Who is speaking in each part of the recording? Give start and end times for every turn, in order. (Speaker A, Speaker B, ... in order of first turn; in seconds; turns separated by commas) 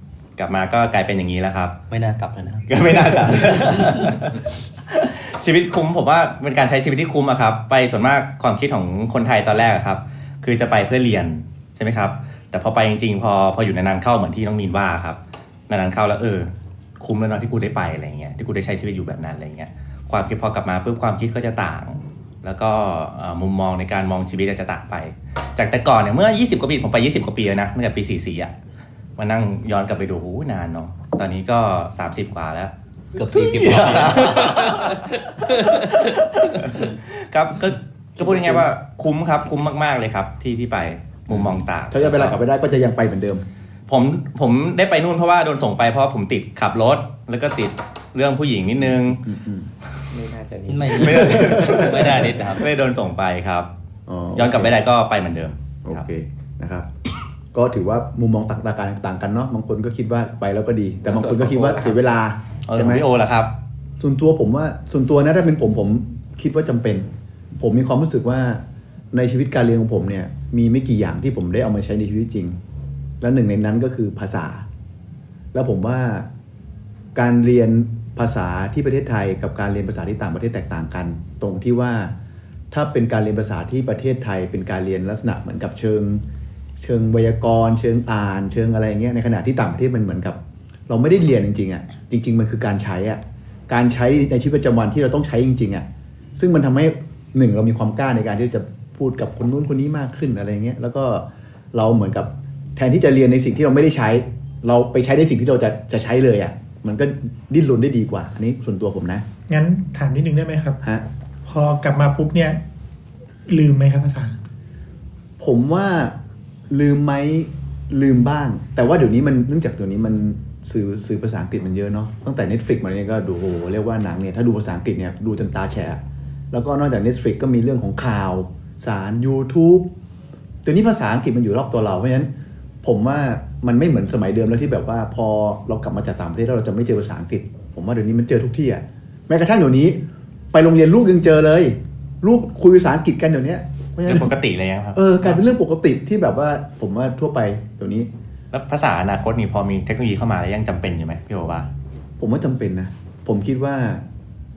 Speaker A: 0.4-1.8, Speaker B: 1.9-4.2, Speaker A: 2.7-28.5, Speaker A: 29.2-42.4, Speaker B: 33.1-36.8, Speaker C: 38.2-38.7, Speaker C: 41.3-43.5, Speaker A: 43.9-49.2, Speaker C: 48.8-49.7, Speaker D: 50.1-51.8, Speaker B: 50.7-52.7, Speaker A: 50.9-53.7, Speaker C: 51.3-51.9, Speaker C: 54.1-54.8, Speaker A: 54.4-56.0, Speaker C: 55.9-56.9, Speaker C: 57.5-63.1, Speaker D: 61.0-62.0, Speaker A: 62.7-63.5, Speaker C: 64.0-72.6, Speaker C: 73.2-74.7, Speaker C: 75.5-76.3, Speaker C: 77.1-82.1, Speaker C: 82.7-86.2, Speaker C: 86.8-109.2, Speaker E: 109.5-110.8, Speaker E: 111.5-112.6, Speaker E: 113.5-114.4, Speaker C: 115.4-116.2, Speaker C: 116.7-129.9, Speaker C: 130.6-132.3, Speaker C: 132.8-140.0, Speaker C: 140.5-144.3, Speaker A: 144.1-145.4, Speaker C: 144.9-148.1, Speaker A: 148.5-151.7, Speaker C: 152.2-154.0